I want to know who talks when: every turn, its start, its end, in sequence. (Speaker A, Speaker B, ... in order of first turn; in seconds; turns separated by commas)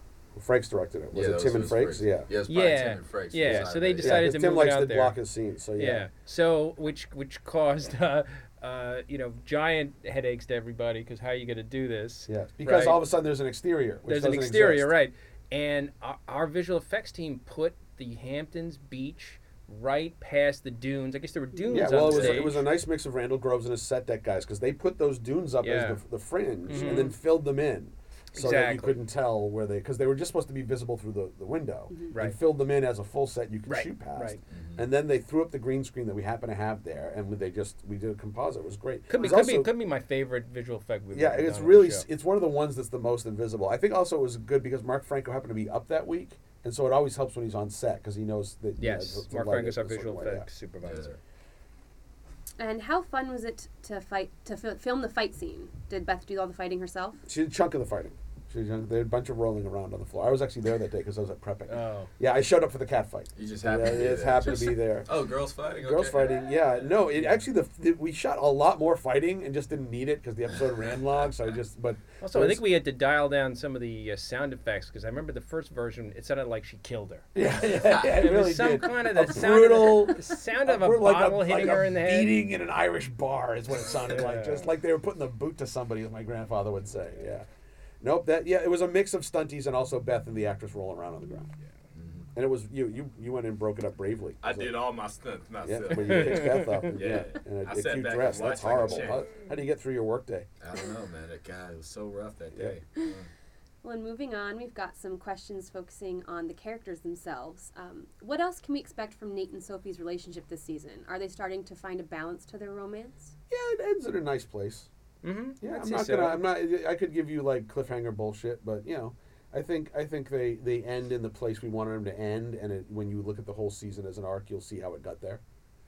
Speaker A: 0.3-2.3, Speaker B: 1.1-4.3, Speaker C: 2.5-5.2, Speaker A: 3.4-6.1, Speaker C: 5.8-13.0, Speaker A: 12.3-14.9, Speaker C: 14.0-22.7, Speaker A: 21.7-39.7, Speaker B: 21.8-22.4, Speaker C: 25.6-26.0, Speaker C: 26.7-27.2, Speaker C: 28.4-29.0, Speaker C: 32.1-32.4, Speaker C: 33.6-34.4, Speaker B: 34.5-34.9, Speaker C: 39.1-42.0, Speaker A: 41.1-50.5, Speaker C: 48.8-51.2, Speaker B: 50.8-51.1, Speaker D: 52.6-57.2, Speaker A: 57.2-65.1, Speaker C: 61.7-62.1, Speaker B: 63.3-66.6, Speaker A: 65.8-72.6, Speaker C: 72.2-82.4, Speaker A: 77.3-87.5, Speaker C: 84.0-84.7, Speaker A: 88.0-91.5, Speaker B: 91.9-92.3, Speaker A: 92.3-94.8, Speaker B: 94.4-99.2, Speaker A: 95.6-100.5, Speaker C: 96.2-97.1, Speaker B: 100.6-103.3, Speaker D: 103.8-113.3, Speaker A: 113.5-114.9, Speaker C: 115.2-116.5, Speaker A: 115.6-125.4